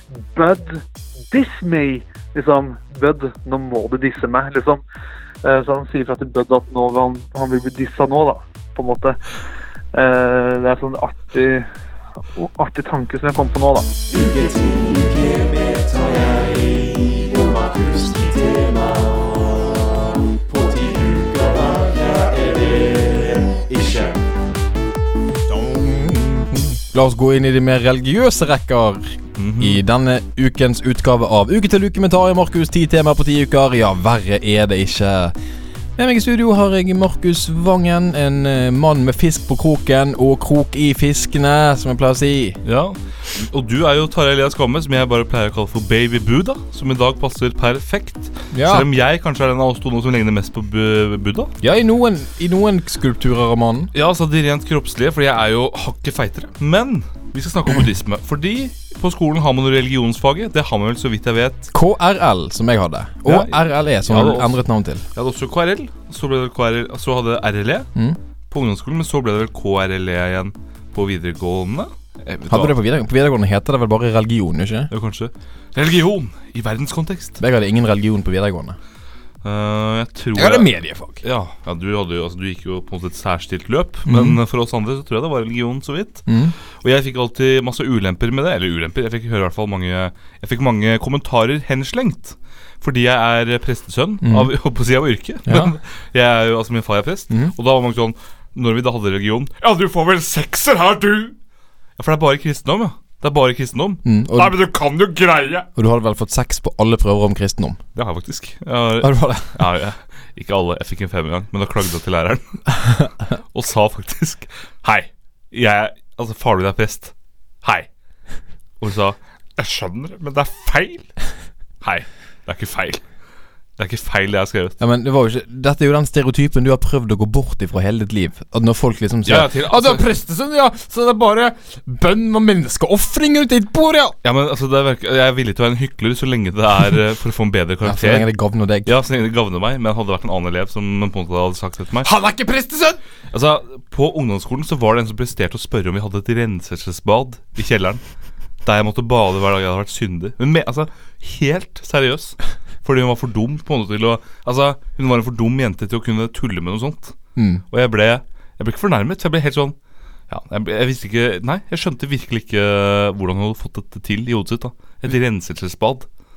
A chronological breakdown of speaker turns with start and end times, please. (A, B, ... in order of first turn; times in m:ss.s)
0:00.3-0:04.8 A
0:05.4-0:09.2 A
0:09.9-0:11.7 A
0:12.3-0:13.9 A
0:14.1-0:19.3 B
0:20.5-0:24.2 B
0:25.5-0:35.3 B
0:29.4-0:29.8 C
0:36.0-0:42.6 B
0:42.6-0:51.5 C
0:48.5-0:48.9 B
0:51.6-0:53.9 B
0:53.9-1:01.7 C
1:01.7-1:05.0 B
1:03.2-1:04.6 C
1:05.1-1:07.9 C
1:08.5-1:12.8 C
1:12.5-1:14.9 B
1:14.9-1:17.4 C
1:17.4-1:18.8 B
1:19.4-1:41.4 C
1:20.3-1:21.2 B
1:24.0-1:24.4 B
1:26.3-1:26.5 B
1:34.2-1:34.5 B
1:35.4-1:35.7 B
1:42.0-1:45.7 C
1:44.0-1:44.6 B
1:45.7-1:47.8 B
1:47.9-1:52.6 C
1:49.0-1:49.6 B
1:52.8-1:53.0 B
1:53.5-1:57.9 C
1:58.8-2:01.1 C
2:01.8-2:03.0 C
2:03.8-2:04.8 C
2:04.8-2:14.2 B
2:09.2-2:10.0 C
2:14.2-2:18.3 C
2:17.8-2:18.9 B
2:18.8-2:22.1 C
2:22.0-2:23.0 B
2:23.3-2:28.0 C
2:28.6-2:37.2 C
2:37.4-2:37.6 B
2:37.7-2:39.8 C
2:40.3-2:46.1 C